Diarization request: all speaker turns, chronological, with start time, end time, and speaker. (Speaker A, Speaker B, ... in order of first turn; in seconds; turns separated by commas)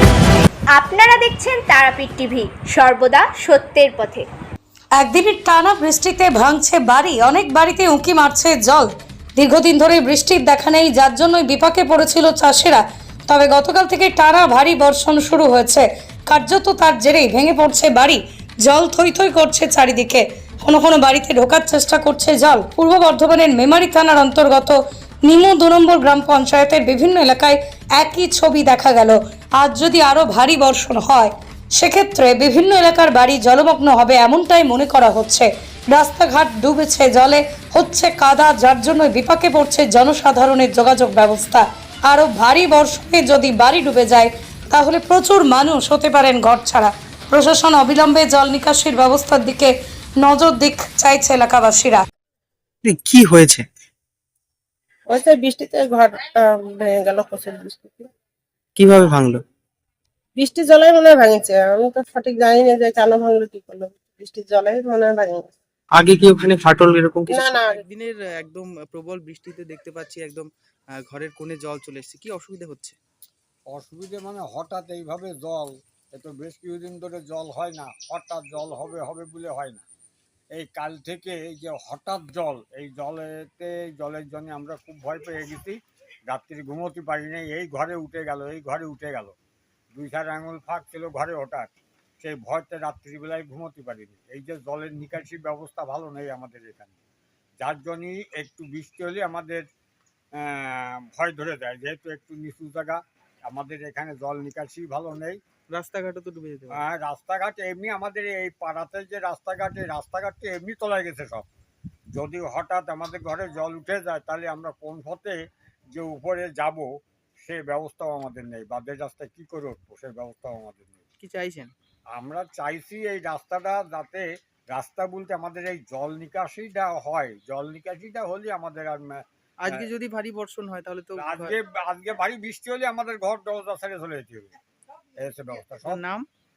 Speaker A: 0.8-4.2, Speaker B: 5.0-52.0, Speaker C: 52.8-53.7, Speaker D: 55.1-58.1, Speaker C: 58.8-59.4, Speaker D: 60.4-65.5, Speaker C: 65.9-67.3, Speaker D: 67.3-67.8, Speaker E: 67.3-73.0, Speaker F: 73.7-79.8, Speaker F: 80.5-85.8, Speaker F: 86.3-89.3, Speaker F: 90.0-91.7, Speaker F: 92.2-96.9, Speaker F: 97.6-99.7, Speaker F: 100.4-105.4, Speaker E: 105.7-106.8, Speaker F: 106.7-111.5, Speaker F: 112.1-115.4, Speaker F: 115.9-116.9, Speaker F: 117.4-121.0, Speaker E: 121.2-121.7, Speaker F: 122.1-129.8, Speaker E: 129.6-131.6, Speaker F: 131.2-134.5, Speaker F: 135.2-136.0, Speaker E: 135.9-136.2